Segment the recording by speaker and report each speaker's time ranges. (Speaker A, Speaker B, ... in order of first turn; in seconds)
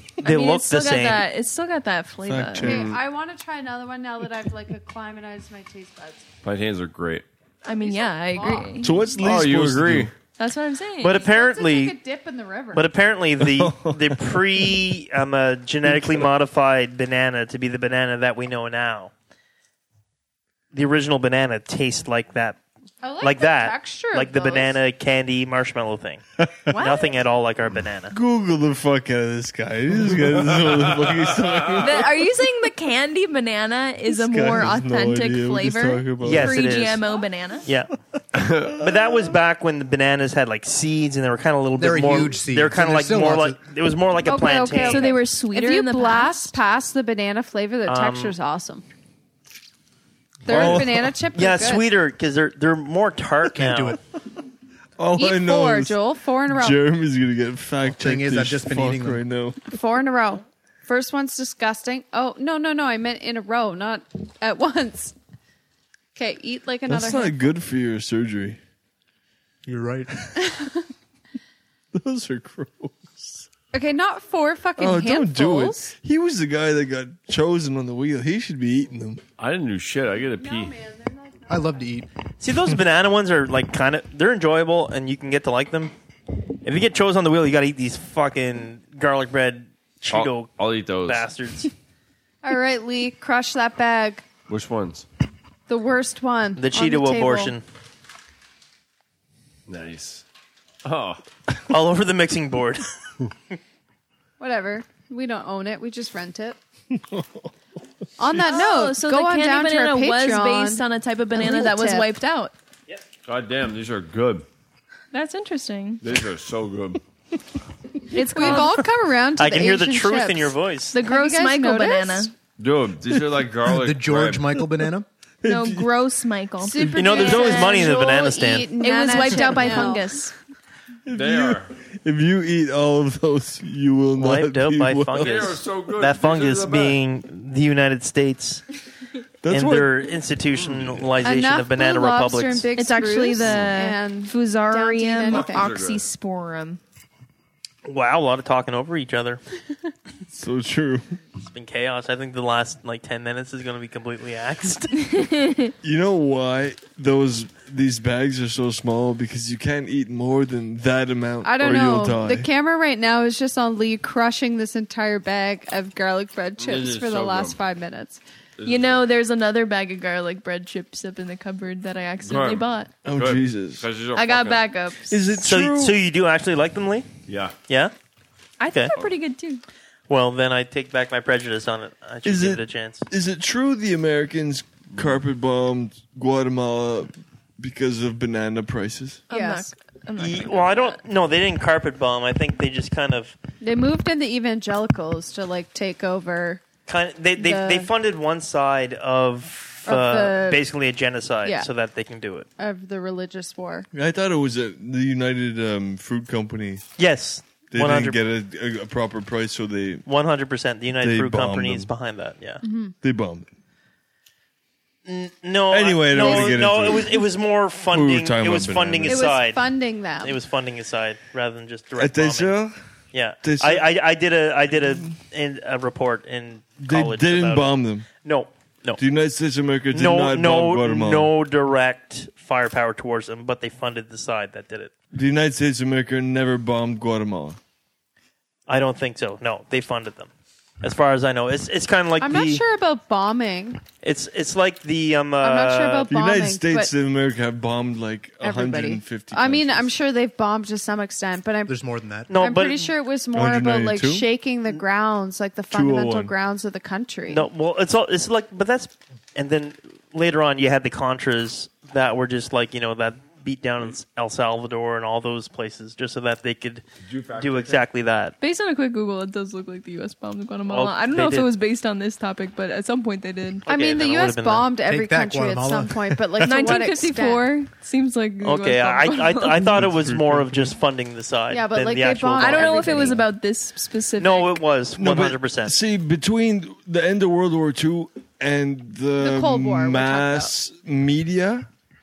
Speaker A: 0.2-1.2, 11.0-12.0, 12.7-19.1, 20.7-22.6, 23.2-28.1, 36.2-37.0, 37.6-37.9, 38.7-45.1, 47.9-48.3, 50.5-50.8, 51.3-54.0, 82.4-85.9, 86.6-91.7, 96.6-97.6, 101.7-102.9, 119.4-120.9, 126.8-128.7, 134.2-138.6, 139.5-142.7, 147.8-149.4, 151.5-155.1, 175.4-177.1, 177.7-177.9, 180.1-183.0, 190.2-193.4, 196.9-202.5, 207.0-208.2, 210.1-212.6, 215.1-219.7, 220.2-222.5, 223.1-229.0, 229.9-234.9, 238.7-240.3, 240.8-242.6, 244.0-246.1, 252.3-252.9, 257.3-266.8, 267.4-268.3, 270.7-271.5, 273.7-274.7, 278.4-283.2, 284.2-285.8
Speaker B: 0.2-2.7, 7.6-9.0, 10.4-11.3, 26.7-27.1, 31.8-37.7, 44.8-46.5, 108.4-112.5, 115.1-116.0, 118.1-118.9, 120.9-122.3, 125.4-128.0, 128.8-130.3, 142.7-146.8, 155.1-155.7, 168.6-172.9, 174.1-175.2, 178.6-179.6, 189.3-191.0, 268.4-273.7, 276.4-279.7, 282.4-284.6
Speaker C: 2.2-2.9, 8.8-10.1, 13.4-14.3, 15.9-16.2, 28.1-32.2, 34.1-36.6, 50.5-51.1, 55.0-59.7, 66.9-68.6, 71.9-73.5, 74.8-79.2, 106.9-107.5, 123.1-123.4, 124.6-124.9, 125.4-125.9, 131.1-135.5, 139.4-140.1, 150.3-151.2, 155.8-162.5, 173.0-173.8, 175.1-176.0, 182.2-189.2, 203.9-206.8, 207.7-210.0, 211.0-211.9, 213.0-213.5, 215.7-217.2, 217.9-219.2, 222.0-222.8, 223.4-223.8, 226.8-228.1, 229.0-231.3, 235.1-237.6, 246.1-249.9, 253.3-254.3, 255.7-256.3, 279.6-280.8, 285.0-291.7
Speaker D: 2.6-3.0, 6.4-7.2, 9.2-10.1, 38.3-38.7, 79.4-80.7, 90.1-91.3, 94.5-95.1, 99.7-100.2, 100.8-101.2, 113.2-114.4, 116.0-117.0, 122.6-124.5, 131.1-131.7, 135.2-137.0, 140.8-141.1, 143.4-143.7, 145.2-146.0, 166.6-167.6, 168.6-169.1, 172.2-174.6, 177.3-177.5, 267.0-267.9
Speaker E: 2.6-6.3, 7.8-8.7, 11.2-12.8, 23.0-24.7, 44.2-48.8, 50.4-51.8, 55.2-56.8, 59.6-65.2, 66.1-67.3, 70.4-70.8, 73.7-75.9, 80.4-81.8, 92.4-94.2, 95.7-97.5, 104.4-106.6, 108.2-112.0, 118.1-122.3, 126.6-130.1, 141.2-145.7, 161.4-168.2, 189.3-189.7, 193.6-196.6, 197.4-197.9, 199.8-200.6, 202.6-203.9, 212.6-212.9, 216.2-216.5, 219.0-220.4, 242.2-243.8, 245.4-246.9, 248.4-251.7, 252.4-257.4, 273.7-277.5, 281.5-283.2, 289.2-290.5
Speaker F: 41.8-43.6, 53.5-54.0, 57.9-59.2, 69.7-70.3, 81.5-82.1, 123.7-125.0, 251.7-252.4, 274.8-276.2